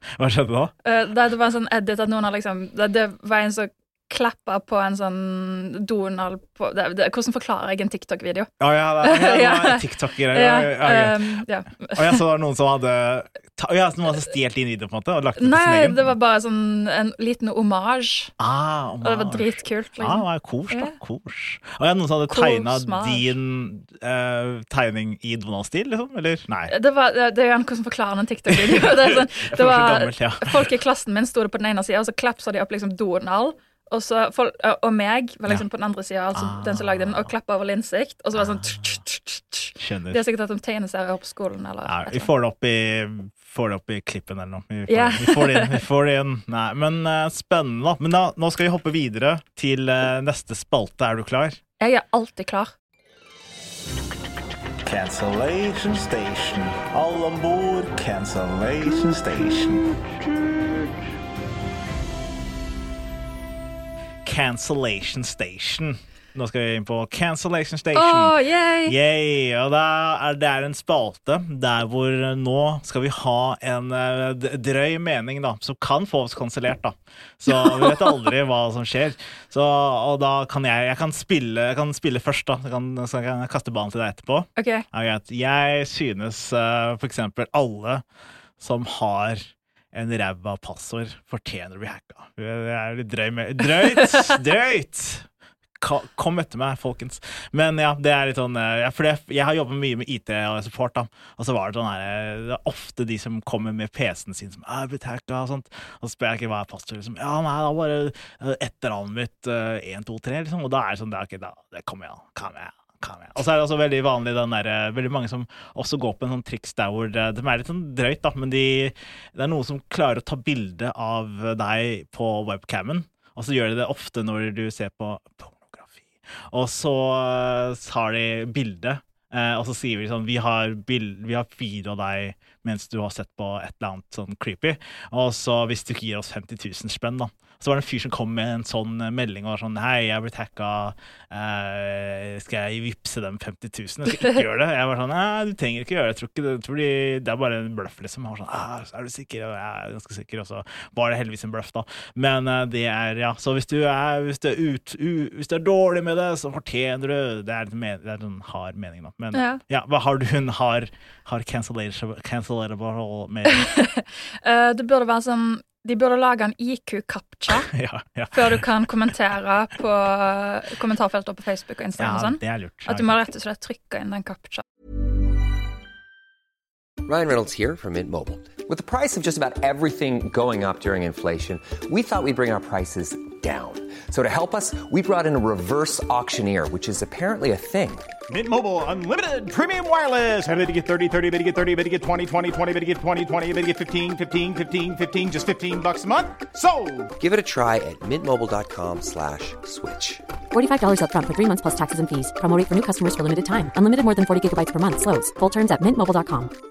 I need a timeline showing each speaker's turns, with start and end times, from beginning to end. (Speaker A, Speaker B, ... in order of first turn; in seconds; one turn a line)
Speaker A: 0.1-0.7
Speaker B: 0.8-8.5
Speaker A: 8.6-16.1
Speaker B: 9.0-12.2
Speaker B: 15.4-18.3
Speaker A: 18.4-19.5
Speaker B: 19.0-20.9
Speaker A: 20.0-26.7
Speaker B: 22.3-23.3
Speaker B: 26.7-42.3
Speaker A: 28.5-30.7
Speaker A: 36.3-37.3
Speaker A: 38.4-39.0
Speaker A: 39.8-40.2
Speaker A: 41.9-51.6
Speaker B: 44.9-45.8
Speaker B: 51.8-52.7
Speaker A: 54.8-60.1
Speaker A: 64.2-88.0
Speaker B: 68.0-69.0
Speaker B: 77.5-78.3
Speaker B: 84.6-84.9
Speaker A: 88.6-95.3
Speaker A: 95.8-163.7
Speaker B: 159.3-159.6
Speaker B: 163.5-167.7
Speaker A: 167.5-168.7
Speaker B: 168.3-174.6
Speaker A: 172.0-173.2
Speaker C: 177.1-188.1
Speaker D: 188.3-197.1
Speaker C: 197.2-200.2
Speaker E: 200.5-206.5